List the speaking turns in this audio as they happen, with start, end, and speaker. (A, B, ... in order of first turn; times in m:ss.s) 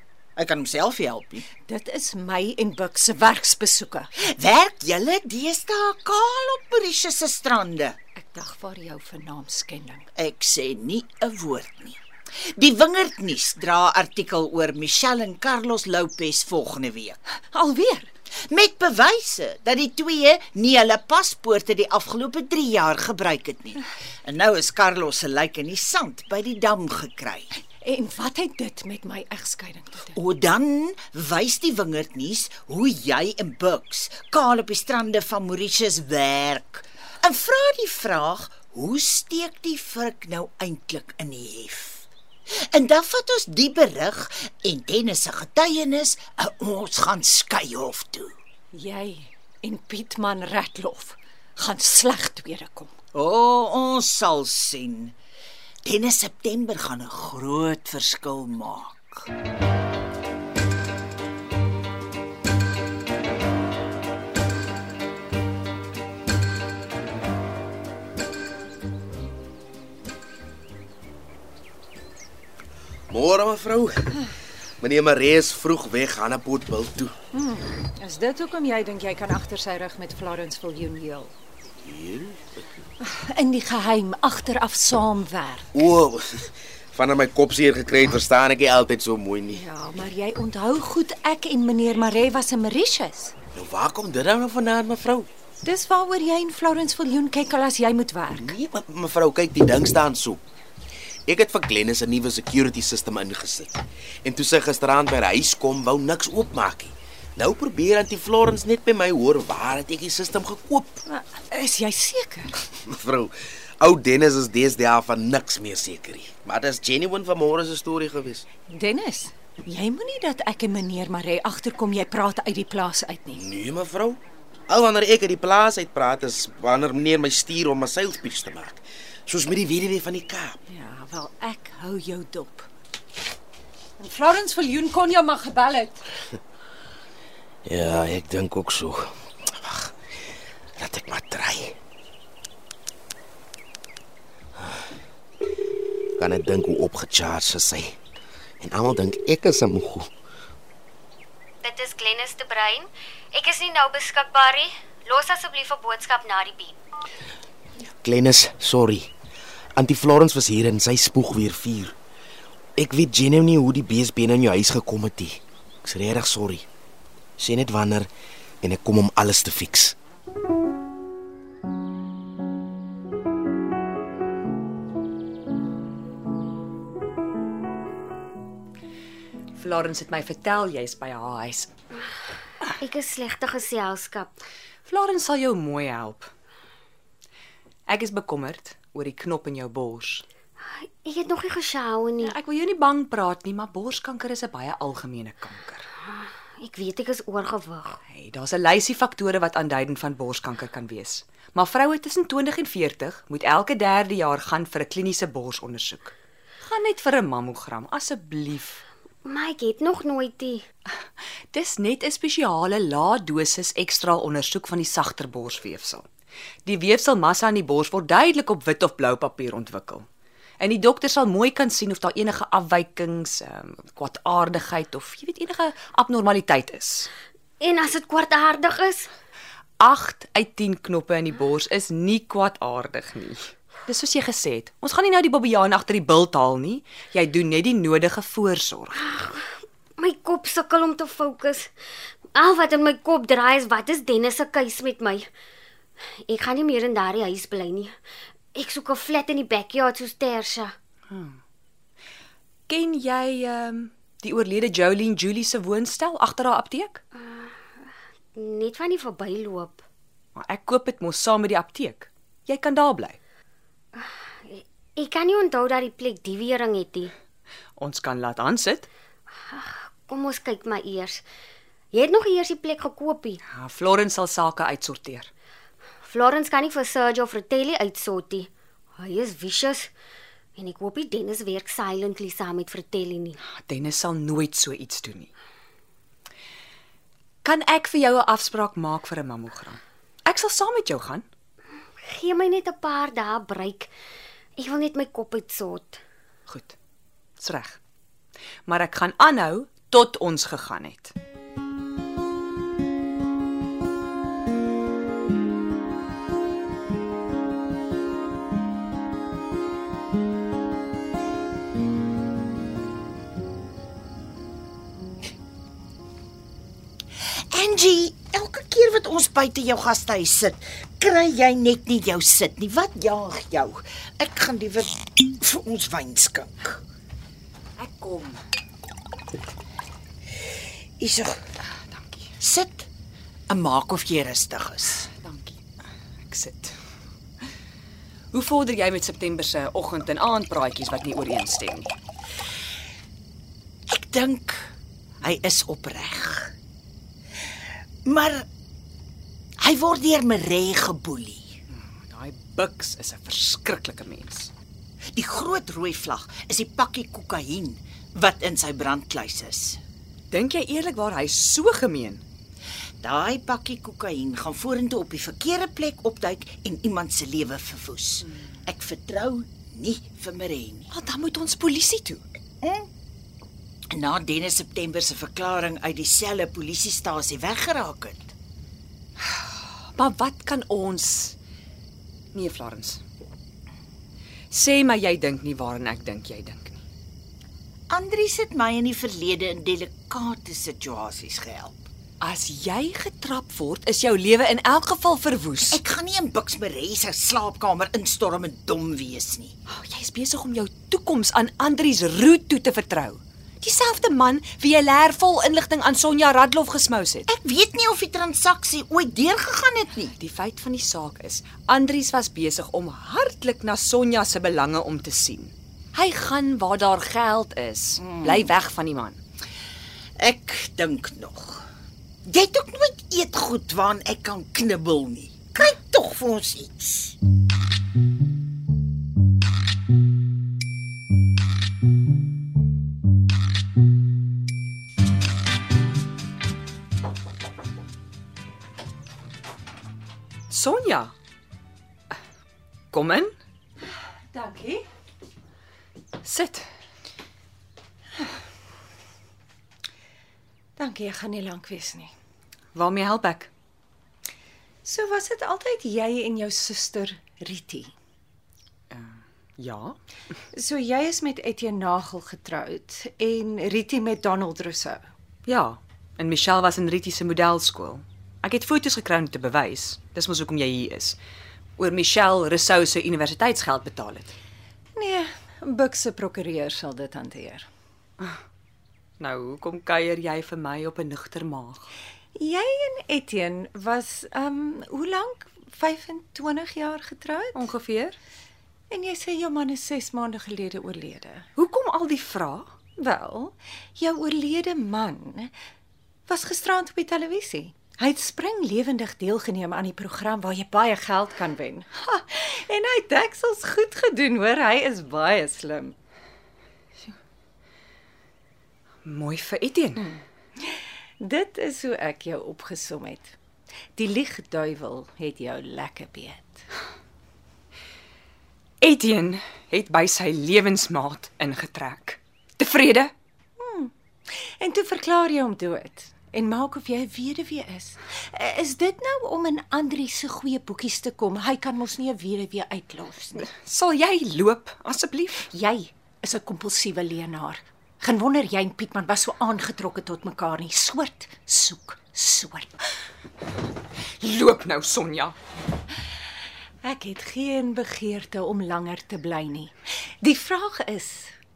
0:00.4-0:01.4 A
0:01.7-0:04.1 B
0:04.2-0:08.0 A
0:08.2-0:10.1 B
0:10.2-0:17.2 A
0:17.5-0:18.1 B
0:18.5-0:27.5 A
0:27.8-0:30.2 B
0:30.1-0:48.3 A
0:48.7-0:52.9 B
0:53.1-0:55.1 A
0:55.8-0:59.2 A
1:13.1-1:14.2 C
1:14.8-1:17.1 C
1:17.3-1:21.3 B
1:21.8-1:22.4 C
1:23.0-1:25.6 B
1:25.7-1:29.6 C
1:29.5-1:33.3 B
1:33.6-1:35.3 C
1:35.6-1:38.6 B
1:38.3-1:40.4 C
1:41.3-1:43.7 C
1:44.2-1:51.0 C
1:51.1-1:52.5 B
1:52.8-1:58.4 C
1:58.7-2:03.4 B
2:03.3-2:10.6 C
2:10.7-2:12.7 B
2:14.0-2:16.0 B
2:17.6-2:19.9 C
2:20.8-2:21.8 C
2:26.2-2:27.9 C
2:28.6-2:30.1 C
2:31.6-2:36.7 D
2:38.0-2:39.1 C
2:39.8-2:41.9 C
2:42.8-2:46.6 C
2:47.4-2:48.1 C
2:48.6-2:50.0 C
2:59.6-3:01.7 E
3:02.8-3:04.4 D
3:04.9-3:06.3 E
3:07.9-3:10.2 E
3:10.8-3:12.3 D
3:12.2-3:15.9 E
3:16.1-3:18.0 D
3:18.1-3:28.8 E
3:29.3-3:30.6 D
3:31.5-3:36.1 E
3:36.7-3:40.1 E
3:40.6-3:47.1 E
3:47.6-3:49.1 D
3:49.8-3:59.2 E
3:59.1-4:01.7 D
4:02.3-4:05.2 D
4:06.3-4:07.9 D
4:08.6-4:10.7 D
4:11.1-4:11.4 E
4:12.7-4:17.0 E
4:17.2-4:17.5 D
4:18.4-4:19.8 D
4:20.4-4:23.2 E
4:24.0-4:27.1 D
4:27.8-4:28.9 E
4:29.5-4:31.2 D
4:31.9-4:33.4 D
4:33.5-4:35.3 E
4:36.0-4:38.5 D
4:39.0-4:39.9 D
4:40.6-4:43.4 D
4:43.5-4:45.3 E
4:47.4-4:51.2 E
4:52.1-4:53.9 D
4:54.6-4:56.0 D
4:56.5-4:56.7 E
4:57.4-4:57.8 E
4:58.7-5:01.1 E
5:17.5-5:26.8 A
5:27.8-5:28.4 E
5:31.0-5:31.4 A
5:31.8-5:32.3 E
5:32.4-5:32.9 A
5:33.5-5:35.1 A
5:35.1-5:35.6 E
5:36.2-5:36.8 E
5:38.3-5:41.9 E
5:43.9-5:44.7 A
5:45.2-5:46.5 A
5:48.1-5:48.5 A
5:49.6-5:51.5 A
5:51.7-5:54.5 E
5:55.2-5:59.8 A
6:00.3-6:02.2 E
6:03.0-6:10.9 A
6:10.9-6:12.3 E
6:12.6-6:12.9 A
6:13.9-6:18.3 A
6:19.2-6:21.4 E
6:22.3-6:23.0 E
6:24.5-6:26.8 E
6:27.9-6:31.9 A
6:32.2-6:35.8 E
6:35.7-6:39.6 A
6:39.7-6:47.3 E
6:47.3-6:50.1 A
6:50.2-6:59.2 E
6:58.1-6:58.4 A
7:00.2-7:01.7 A
7:02.2-7:07.2 A
7:20.5-7:21.1 E
7:22.9-7:23.3 E
7:24.3-7:24.8 B
7:26.2-7:26.7 E
7:30.8-7:32.1 B
7:32.7-7:33.5 E
7:34.8-7:37.9 B
7:38.9-7:40.0 E
7:40.5-7:45.1 B
7:45.4-7:51.2 E
7:51.8-7:54.3 E
7:55.0-7:57.7 B
7:59.2-8:01.9 E
8:02.4-8:07.6 B
8:07.5-8:08.2 E
8:08.9-8:11.4 B
8:11.6-8:12.7 E
8:13.0-8:15.5 B
8:16.3-8:25.9 B
8:29.0-8:30.2 E
8:31.2-8:33.4 B
8:34.0-8:36.6 B
8:38.8-8:43.1 E
8:43.6-8:43.9 B
8:44.5-8:53.5 B
8:53.4-8:55.5 E
8:55.5-9:02.7 B
9:04.2-9:05.4 E
9:06.8-9:11.3 B